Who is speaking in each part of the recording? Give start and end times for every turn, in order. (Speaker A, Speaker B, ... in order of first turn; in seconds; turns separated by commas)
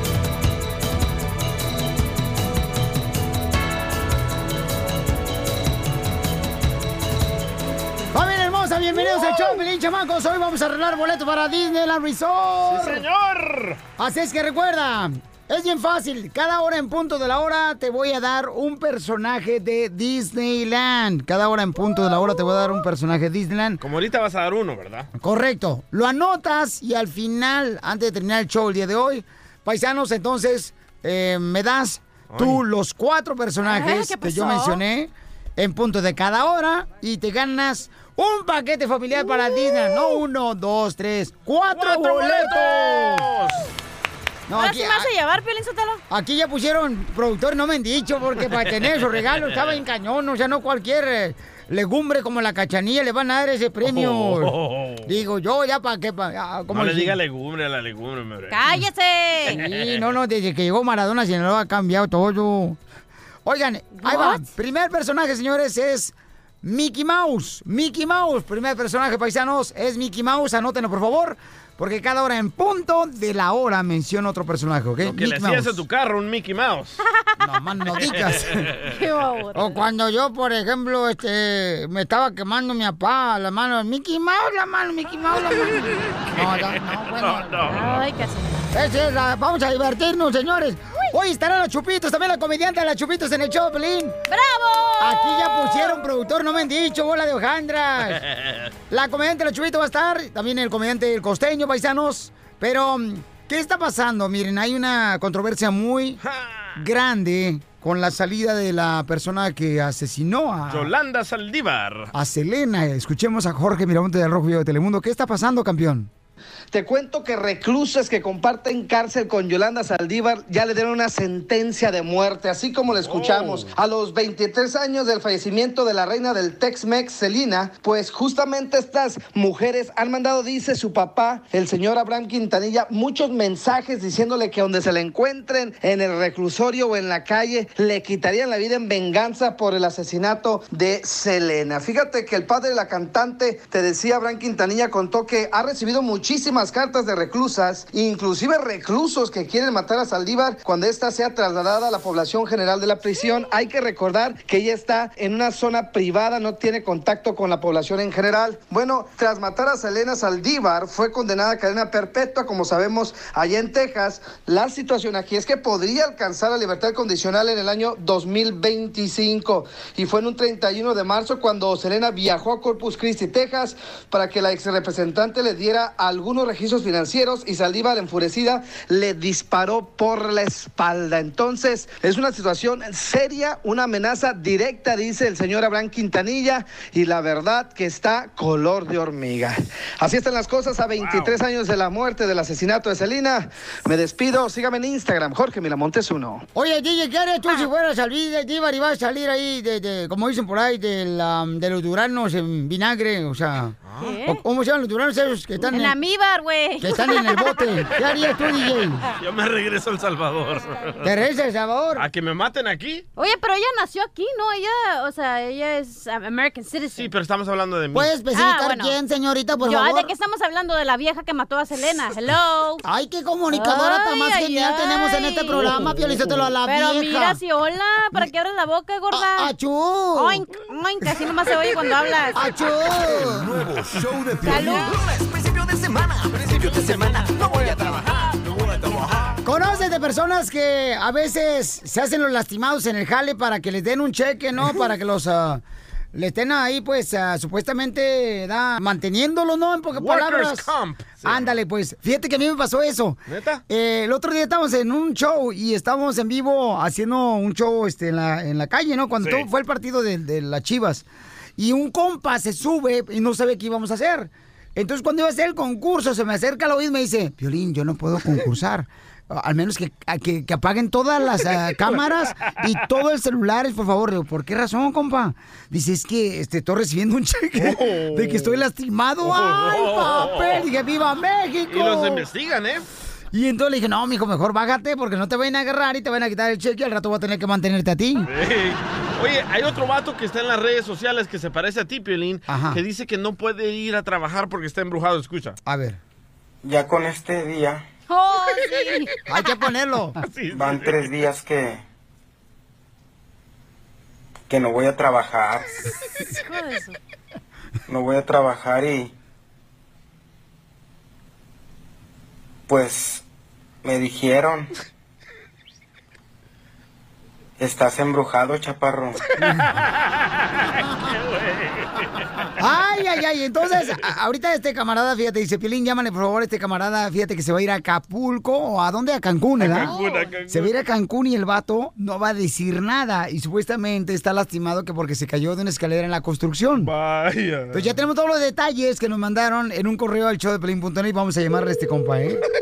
Speaker A: 8.1-13.0, Speaker B: 12.7-13.8, Speaker A: 14.0-23.8, Speaker B: 23.8-25.1, Speaker A: 25.1-43.3, Speaker B: 32.3-32.6, Speaker C: 33.6-34.8, Speaker B: 41.7-43.6, Speaker A: 44.5-45.1, Speaker C: 44.5-46.0, Speaker A: 46.1-54.5, Speaker B: 49.3-49.7, Speaker B: 53.8-55.1, Speaker A: 55.0-57.2, Speaker B: 56.7-58.8, Speaker C: 58.5-59.6, Speaker B: 59.5-60.0, Speaker A: 59.5-62.8, Speaker A: 63.4-75.8, Speaker C: 63.9-64.4, Speaker B: 75.0-77.0, Speaker A: 77.4-78.7, Speaker C: 78.8-79.8, Speaker A: 79.5-87.8, Speaker B: 87.2-88.0, Speaker C: 87.7-88.7, Speaker A: 88.7-94.2, Speaker C: 94.3-96.0, Speaker A: 95.0-98.2, Speaker A: 98.9-106.2, Speaker B: 106.2-106.7, Speaker A: 106.7-110.9, Speaker B: 110.7-112.1, Speaker A: 112.1-116.1, Speaker D: 116.7-196.4, Speaker B: 123.0-123.7, Speaker B: 191.0-191.4, Speaker A: 196.5-206.0, Speaker B: 203.8-204.1, Speaker C: 204.0-204.4, Speaker C: 205.7-207.6, Speaker A: 206.8-209.1, Speaker B: 209.2-210.9, Speaker A: 211.0-212.1, Speaker B: 211.9-213.0, Speaker C: 213.2-217.1, Speaker B: 216.9-218.2, Speaker A: 217.9-220.1, Speaker C: 218.3-218.9, Speaker C: 219.6-222.8, Speaker A: 222.8-227.4, Speaker C: 223.5-226.0, Speaker C: 226.6-229.5, Speaker A: 229.1-230.4, Speaker C: 230.1-232.4, Speaker A: 232.3-233.6, Speaker E: 232.9-239.4, Speaker C: 234.4-234.9, Speaker A: 234.5-234.8, Speaker A: 239.4-250.7, Speaker B: 249.9-251.5, Speaker A: 251.2-261.1, Speaker B: 253.3-253.6, Speaker B: 259.2-259.5, Speaker A: 261.6-282.3, Speaker B: 277.6-278.6, Speaker B: 279.2-280.6, Speaker B: 281.7-282.9, Speaker A: 283.3-288.3, Speaker B: 288.2-295.6, Speaker A: 292.5-292.8, Speaker A: 295.6-296.0, Speaker F: 296.6-297.8, Speaker C: 298.1-299.1, Speaker A: 299.3-300.2, Speaker B: 300.2-301.2, Speaker F: 300.5-301.8, Speaker F: 304.5-305.7, Speaker C: 306.4-307.0, Speaker F: 307.9-309.1, Speaker F: 312.7-313.2, Speaker F: 313.8-314.7, Speaker F: 317.6-319.2, Speaker B: 319.4-319.9, Speaker B: 321.0-322.1, Speaker A: 322.6-329.9, Speaker B: 329.6-330.7, Speaker C: 329.6-330.4, Speaker A: 330.5-336.9, Speaker B: 336.8-337.9, Speaker A: 337.7-342.4